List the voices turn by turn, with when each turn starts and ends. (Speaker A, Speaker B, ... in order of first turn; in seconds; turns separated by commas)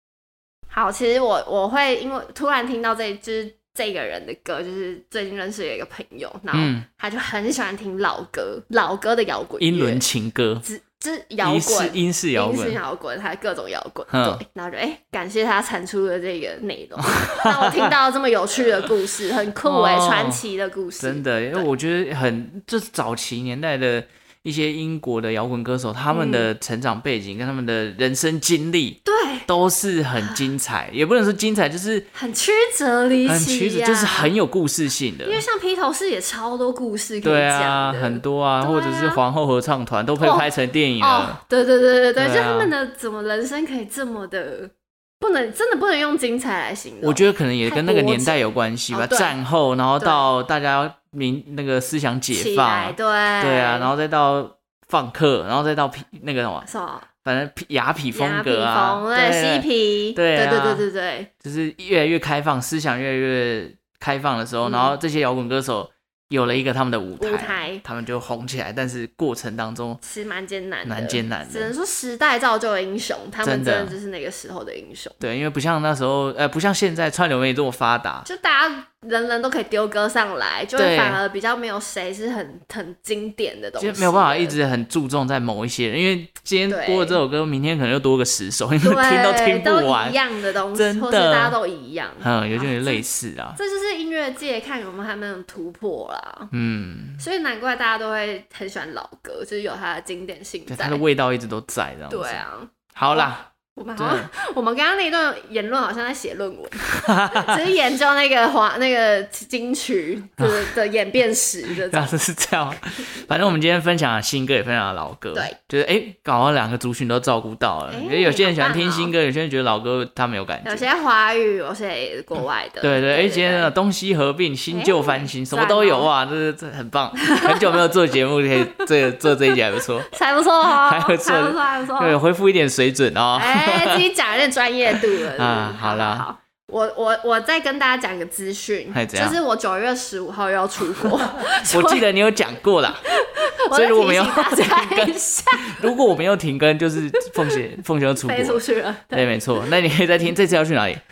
Speaker A: 0.7-10.0, Speaker B: 6.5-6.8, Speaker B: 9.6-10.6, Speaker A: 10.6-21.7, Speaker B: 11.4-12.8, Speaker B: 14.1-14.4, Speaker B: 17.0-17.9, Speaker B: 19.6-20.4, Speaker B: 21.0-32.1, Speaker A: 26.1-26.5, Speaker A: 29.1-29.5, Speaker A: 30.2-30.5, Speaker A: 32.1-34.3, Speaker B: 33.2-35.4, Speaker A: 35.2-39.2, Speaker B: 37.2-41.4, Speaker A: 40.2-49.4, Speaker B: 42.2-42.7, Speaker B: 47.0-56.7, Speaker A: 50.0-50.3, Speaker A: 52.3-53.9, Speaker A: 56.6-57.1, Speaker B: 57.2-60.8, Speaker A: 58.1-61.3, Speaker B: 61.4-70.0, Speaker A: 64.6-65.0, Speaker A: 67.2-67.8, Speaker A: 70.0-75.2, Speaker B: 70.8-71.7, Speaker B: 73.4-74.0, Speaker B: 75.2-78.3, Speaker A: 78.2-84.6, Speaker B: 80.8-81.2, Speaker B: 83.8-90.2, Speaker A: 86.7-87.2, Speaker A: 88.8-93.0, Speaker B: 90.7-91.5, Speaker B: 92.2-93.6, Speaker A: 93.5-96.5, Speaker B: 96.5-97.2, Speaker A: 97.2-101.0, Speaker B: 100.7-104.3, Speaker A: 102.1-112.2, Speaker B: 106.8-107.6, Speaker B: 110.4-110.7, Speaker B: 111.7-120.8, Speaker A: 117.9-119.1, Speaker A: 120.6-123.7, Speaker B: 122.8-130.1, Speaker A: 124.7-126.1, Speaker A: 127.3-127.8, Speaker A: 128.6-129.3, Speaker A: 130.1-132.2, Speaker B: 130.6-134.0, Speaker A: 133.3-142.1, Speaker B: 135.0-136.3, Speaker B: 138.9-139.4, Speaker B: 141.4-143.1, Speaker A: 143.0-145.9, Speaker B: 143.7-151.0, Speaker A: 147.2-147.6, Speaker A: 148.2-149.8